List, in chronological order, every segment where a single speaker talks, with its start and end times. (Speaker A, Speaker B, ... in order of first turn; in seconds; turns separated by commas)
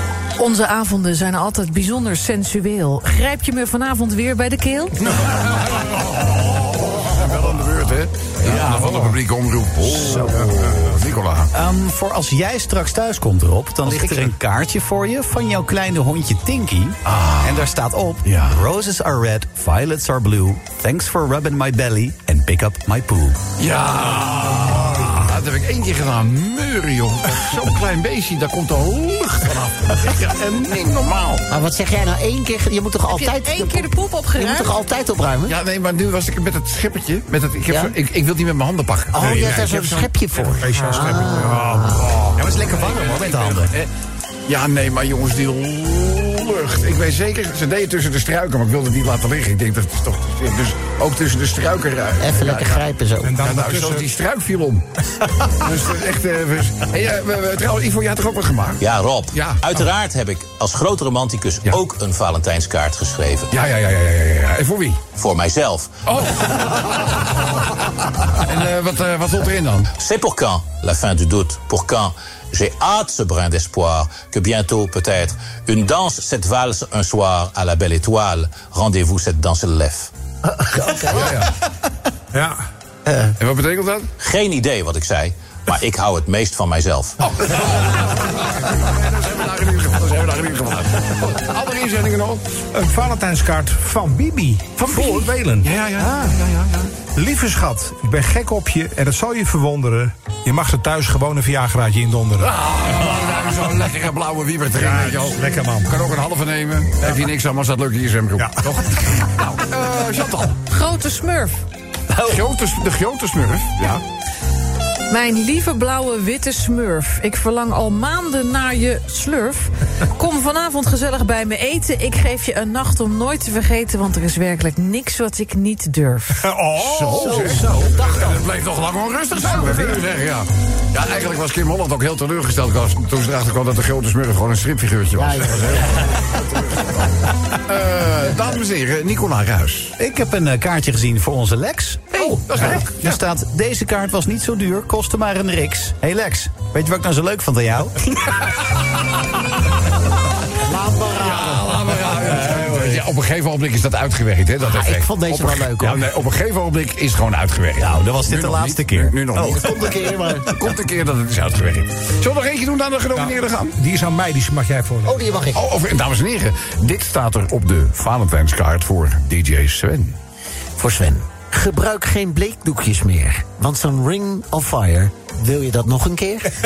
Speaker A: 0.4-5.0, Speaker B: 5.0-11.5, Speaker C: 8.5-9.0, Speaker D: 11.5-23.4, Speaker B: 13.8-14.3, Speaker B: 17.1-17.7, Speaker B: 18.2-18.6, Speaker B: 23.6-31.5, Speaker E: 31.5-35.5, Speaker A: 33.1-34.7, Speaker B: 35.5-40.0, Speaker E: 39.1-42.2, Speaker C: 39.2-40.0, Speaker C: 40.6-42.4, Speaker D: 42.4-43.7, Speaker B: 42.6-43.9, Speaker B: 44.5-52.8, Speaker E: 52.2-53.4, Speaker C: 53.2-54.1, Speaker B: 53.4-54.9, Speaker B: 55.5-59.6, Speaker F: 58.8-63.5, Speaker B: 63.5-65.0, Speaker F: 65.2-66.0, Speaker B: 66.1-67.7, Speaker B: 68.3-69.9, Speaker F: 70.0-80.1, Speaker E: 80.5-81.4, Speaker B: 81.1-81.5, Speaker C: 82.3-82.6, Speaker E: 83.1-83.3, Speaker B: 83.4-84.1, Speaker F: 84.2-87.2, Speaker B: 87.2-92.4, Speaker C: 92.7-96.4, Speaker B: 94.8-96.9, Speaker C: 97.1-102.5, Speaker B: 102.4-110.6, Speaker C: 104.8-105.9, Speaker C: 108.4-108.7, Speaker A: 110.7-111.7, Speaker D: 112.1-112.4, Speaker B: 112.2-114.0, Speaker A: 115.1-126.5, Speaker C: 126.4-127.8, Speaker B: 126.8-136.8, Speaker E: 127.2-128.4, Speaker C: 129.3-130.1, Speaker E: 135.2-136.2, Speaker B: 137.7-139.9, Speaker D: 140.0-148.1, Speaker B: 142.1-143.2, Speaker E: 150.6-152.1, Speaker B: 151.2-159.9, Speaker E: 154.6-156.0, Speaker D: 157.8-159.6, Speaker E: 159.5-160.5, Speaker B: 160.5-163.8, Speaker C: 163.2-165.5, Speaker E: 165.1-165.6, Speaker B: 165.5-170.2, Speaker E: 170.8-176.5